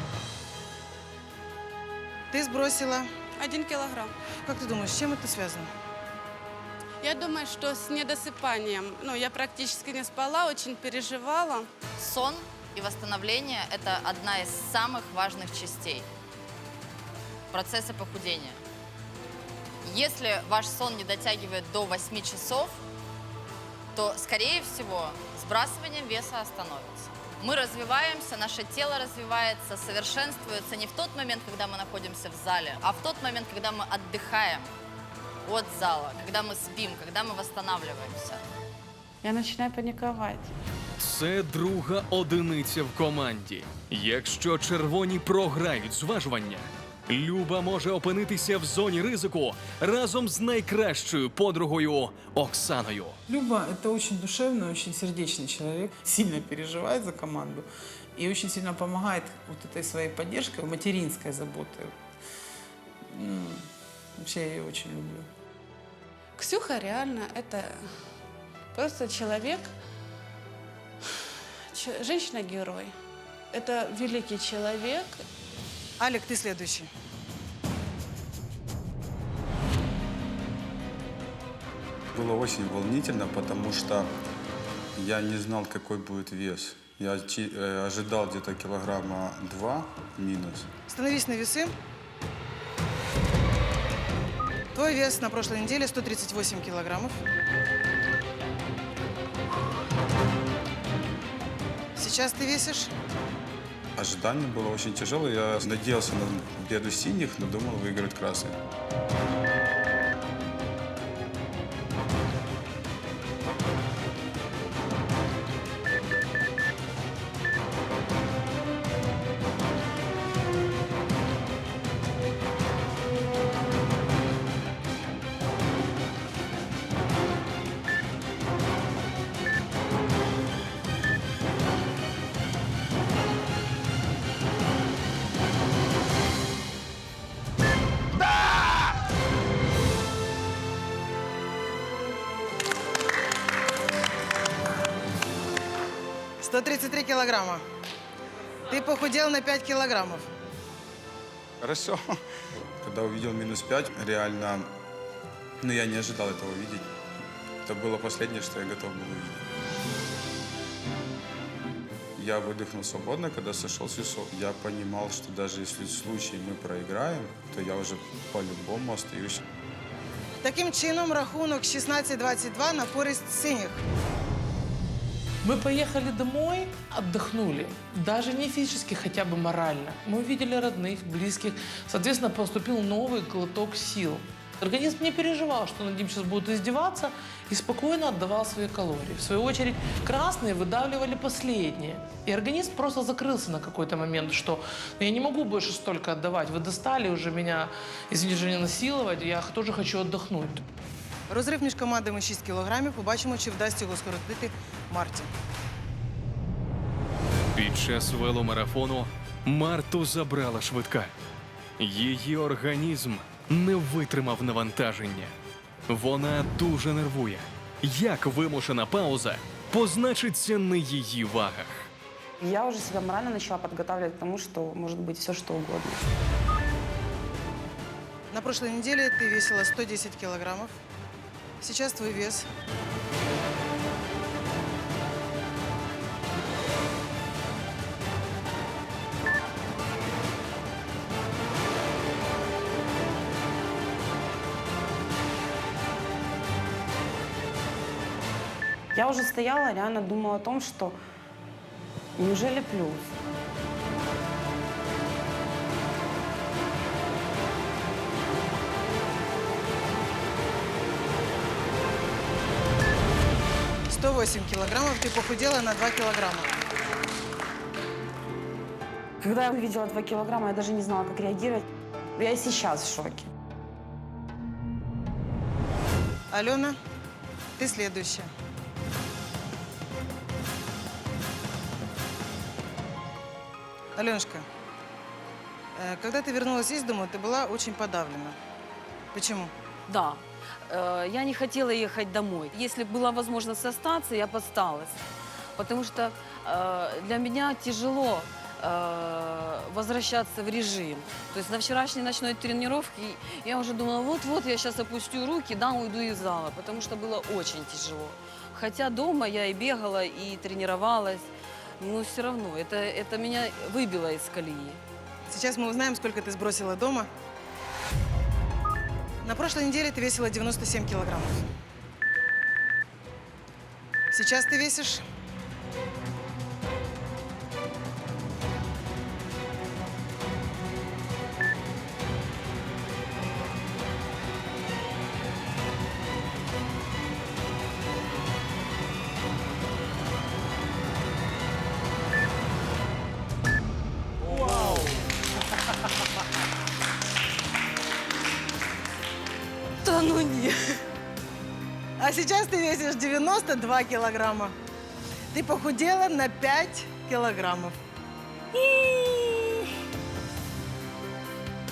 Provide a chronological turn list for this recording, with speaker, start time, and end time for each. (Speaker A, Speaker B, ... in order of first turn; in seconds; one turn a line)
Speaker A: 2.3-3.1
Speaker B: 3.4-4.1
Speaker A: 4.4-5.7
Speaker B: 7.0-11.7
Speaker C: 12.0-16.1
Speaker C: 17.5-18.6
Speaker C: 19.8-22.8
Speaker C: 23.9-34.7
Speaker C: 35.4-38.4
Speaker B: 39.2-40.5
Speaker D: 41.0-53.2
Speaker E: 53.3-57.6
Speaker E: 58.1-61.9
Speaker E: 63.1-63.7
Speaker E: 64.2-65.3
Speaker B: 66.4-67.8
Speaker B: 68.7-69.7
Speaker B: 71.7-72.9
Speaker B: 73.5-75.2
Speaker A: 76.0-76.9
Speaker F: 82.1-84.1
Speaker F: 85.0-90.7
Speaker A: 90.9-91.7
Speaker A: 94.7-97.2
Speaker A: 102.0-102.9
Speaker F: 104.0-108.6
Speaker A: 146.4-147.6
Speaker A: 148.7-150.2
Speaker F: 151.6-152.2
Speaker F: 152.8-154.7
Speaker F: 155.6-156.9
Speaker F: 157.6-159.4
Speaker F: 162.2-169.4
Speaker A: 170.4-173.8
Speaker G: 175.4-200.6
Speaker A: 201.3-205.3
Speaker D: 207.5-211.1
Speaker D: 211.8-215.3
Speaker D: 215.9-221.9
Speaker H: 222.4-226.1
Speaker A: 228.3-230.7
Speaker A: 231.6-232.4
Speaker H: 248.9-251.0
Speaker H: 252.2-253.1
Speaker A: 263.9-266.5
Speaker H: 269.2-271.6
Speaker H: 272.2-273.3
Speaker A: 276.3-276.8
Speaker A: 277.6-278.3
Speaker A: 283.9-284.4
Speaker A: 285.8-288.4
Speaker A: 289.1-289.5
Speaker I: 289.9-295.0
Speaker I: 295.6-314.8
Speaker A: 315.3-317.1
Speaker A: 319.2-321.4
Speaker A: 324.1-325.0
Speaker I: 344.3-344.9
Speaker I: 349.8-350.6
Speaker A: 352.0-354.5
Speaker A: 355.3-357.8
Speaker I: 358.5-359.5